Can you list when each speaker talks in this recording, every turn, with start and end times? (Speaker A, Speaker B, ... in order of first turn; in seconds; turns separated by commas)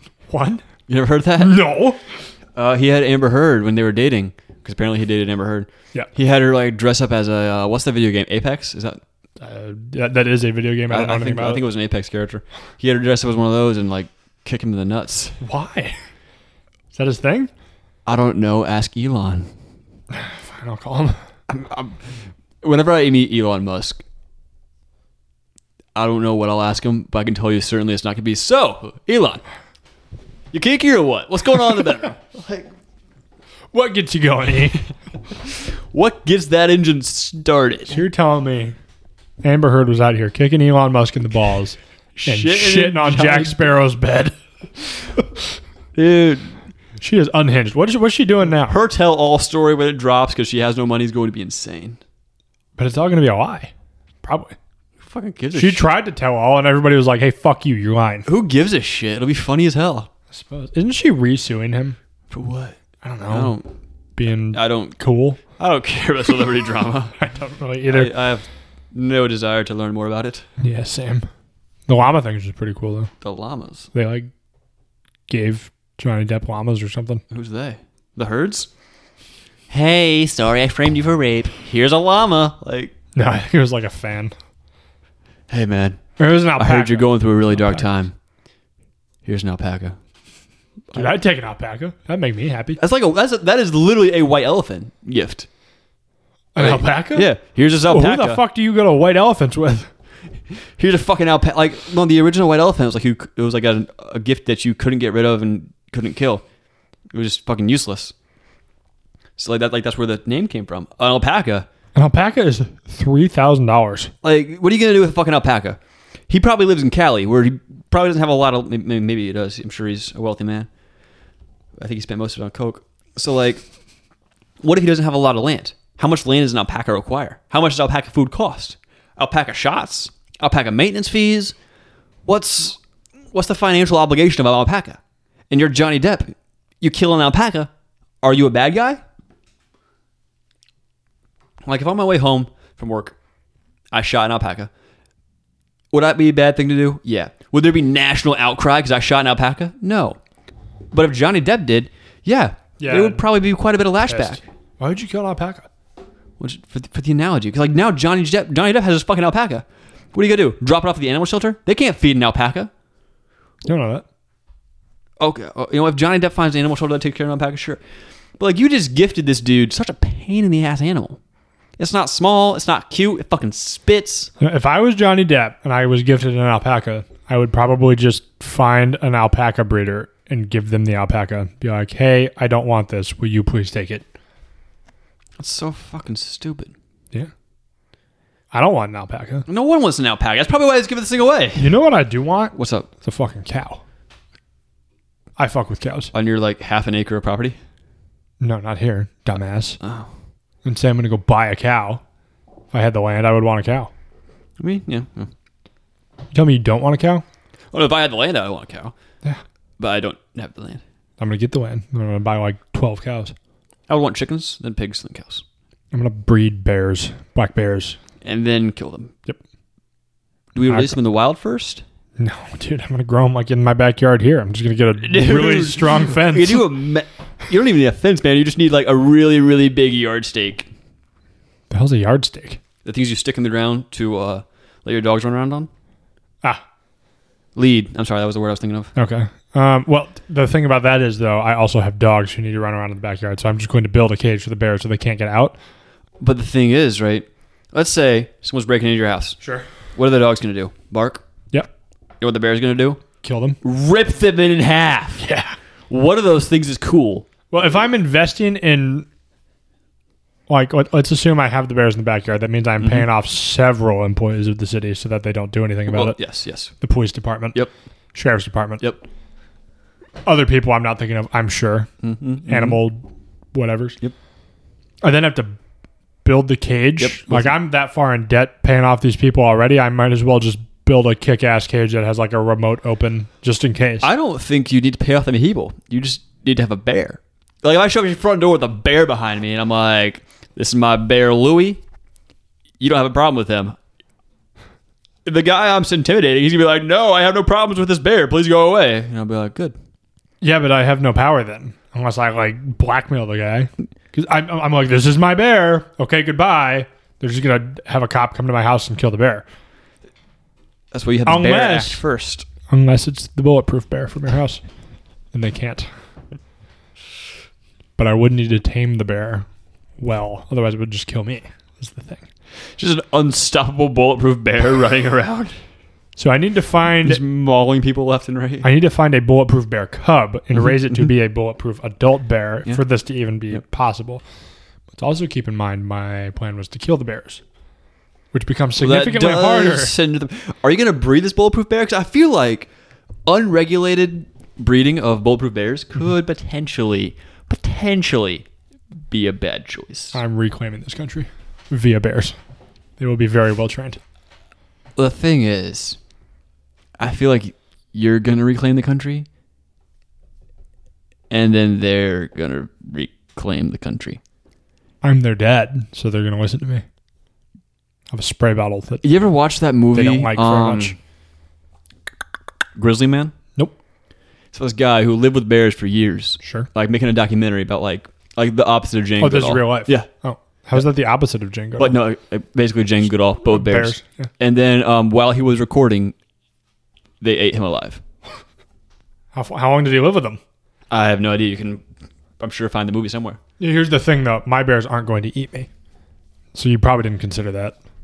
Speaker A: 0.3-0.6, Speaker B: 0.9-1.6, Speaker A: 1.4-2.0, Speaker B: 2.6-9.0, Speaker A: 9.4-11.6, Speaker B: 10.9-15.4, Speaker A: 15.4-16.0, Speaker A: 16.9-17.5, Speaker B: 18.1-19.5, Speaker A: 20.1-21.2, Speaker B: 21.5-24.0, Speaker B: 25.9-29.4, Speaker B: 30.5-32.7, Speaker A: 33.7-34.8, Speaker B: 35.6-38.0, Speaker A: 37.9-38.8, Speaker A: 39.4-44.4, Speaker B: 42.2-43.7, Speaker B: 46.0-46.6, Speaker A: 47.0-48.8, Speaker B: 48.7-52.0, Speaker A: 52.8-53.7, Speaker A: 54.2-54.6, Speaker B: 55.0-55.9, Speaker A: 55.5-58.3, Speaker B: 58.3-60.1, Speaker A: 60.3-62.0, Speaker B: 62.3-63.7, Speaker A: 63.0-63.6, Speaker A: 64.2-65.4, Speaker B: 64.5-65.0, Speaker B: 65.5-67.2, Speaker A: 67.2-68.1, Speaker B: 67.9-70.5, Speaker A: 70.6-71.3, Speaker A: 71.9-73.1, Speaker B: 73.2-73.9, Speaker A: 73.9-74.3, Speaker A: 75.3-77.2, Speaker B: 77.3-78.7, Speaker B: 79.7-82.9, Speaker A: 83.2-84.3, Speaker B: 85.5-86.0, Speaker A: 86.2-87.9, Speaker B: 86.6-88.2, Speaker B: 89.2-90.0, Speaker A: 90.9-92.8, Speaker B: 92.8-95.5, Speaker A: 96.5-97.3, Speaker B: 96.6-98.4, Speaker A: 97.9-99.9, Speaker B: 100.8-106.4, Speaker B: 107.1-108.1, Speaker B: 109.4-111.7, Speaker A: 112.0-114.1, Speaker B: 114.2-120.7, Speaker B: 121.8-123.7, Speaker B: 124.6-131.6, Speaker B: 132.3-132.8, Speaker B: 133.3-135.0, Speaker B: 135.5-137.7, Speaker B: 138.2-139.0, Speaker B: 141.7-143.2, Speaker B: 143.9-144.7, Speaker B: 145.9-150.2, Speaker B: 150.9-154.4, Speaker A: 152.8-153.2, Speaker A: 154.1-155.7, Speaker B: 156.4-162.7, Speaker A: 163.7-164.1, Speaker B: 165.2-167.8, Speaker B: 168.4-171.2, Speaker B: 171.8-174.3, Speaker A: 174.4-184.1, Speaker B: 185.4-186.7, Speaker A: 188.5-189.5, Speaker B: 189.5-191.7, Speaker A: 191.6-193.8, Speaker B: 192.5-192.9, Speaker A: 195.4-196.1, Speaker B: 196.1-197.6, Speaker A: 198.4-199.8, Speaker B: 199.8-200.1, Speaker A: 200.6-202.0, Speaker A: 202.7-203.9, Speaker B: 204.6-205.3, Speaker A: 206.3-207.2, Speaker B: 207.7-208.9, Speaker B: 209.8-210.8, Speaker A: 211.2-213.3, Speaker B: 213.9-215.4, Speaker A: 215.9-218.0, Speaker B: 218.2-219.1, Speaker B: 220.6-221.8, Speaker A: 220.7-221.0, Speaker A: 222.2-226.7, Speaker B: 225.0-230.7, Speaker A: 231.7-232.6, Speaker B: 232.8-235.7, Speaker B: 237.6-238.9, Speaker A: 238.9-245.6, Speaker B: 246.2-249.4, Speaker A: 249.4-249.7, Speaker B: 249.9-251.2, Speaker B: 252.2-253.0, Speaker A: 253.2-253.6, Speaker B: 253.6-255.3, Speaker A: 255.2-255.6, Speaker B: 255.9-257.3, Speaker A: 257.5-259.1, Speaker A: 260.5-266.2, Speaker B: 262.8-263.1, Speaker B: 265.9-266.7, Speaker A: 266.8-267.6, Speaker A: 268.1-268.9, Speaker A: 270.2-271.9, Speaker B: 272.0-272.8, Speaker A: 272.5-274.0, Speaker A: 275.0-275.6, Speaker A: 276.2-284.1, Speaker B: 277.0-277.5, Speaker B: 284.0-291.8, Speaker B: 292.8-293.8, Speaker B: 295.2-299.8, Speaker A: 300.4-309.5, Speaker B: 310.9-312.5, Speaker A: 311.3-312.0, Speaker A: 312.7-314.6, Speaker A: 315.3-315.9, Speaker A: 318.0-319.5, Speaker A: 320.0-322.3, Speaker B: 322.8-325.6, Speaker A: 326.2-327.2, Speaker B: 327.0-328.7, Speaker A: 328.6-334.2, Speaker A: 334.9-337.4, Speaker A: 338.3-339.9, Speaker B: 338.8-342.7, Speaker B: 343.3-348.5, Speaker B: 349.1-350.2, Speaker A: 350.1-352.4, Speaker A: 353.0-354.0, Speaker B: 355.0-356.0, Speaker B: 357.0-359.3, Speaker B: 361.3-364.2, Speaker A: 365.0-366.9, Speaker A: 368.1-369.0, Speaker B: 369.0-370.9, Speaker A: 369.9-370.9, Speaker B: 372.8-373.4, Speaker B: 374.5-380.1, Speaker A: 376.4-376.7, Speaker A: 379.2-382.0, Speaker B: 381.8-386.1, Speaker A: 383.4-384.3, Speaker B: 387.2-388.0, Speaker A: 389.3-390.4, Speaker B: 390.9-391.8, Speaker B: 392.4-393.4, Speaker A: 393.6-395.7, Speaker A: 396.6-397.8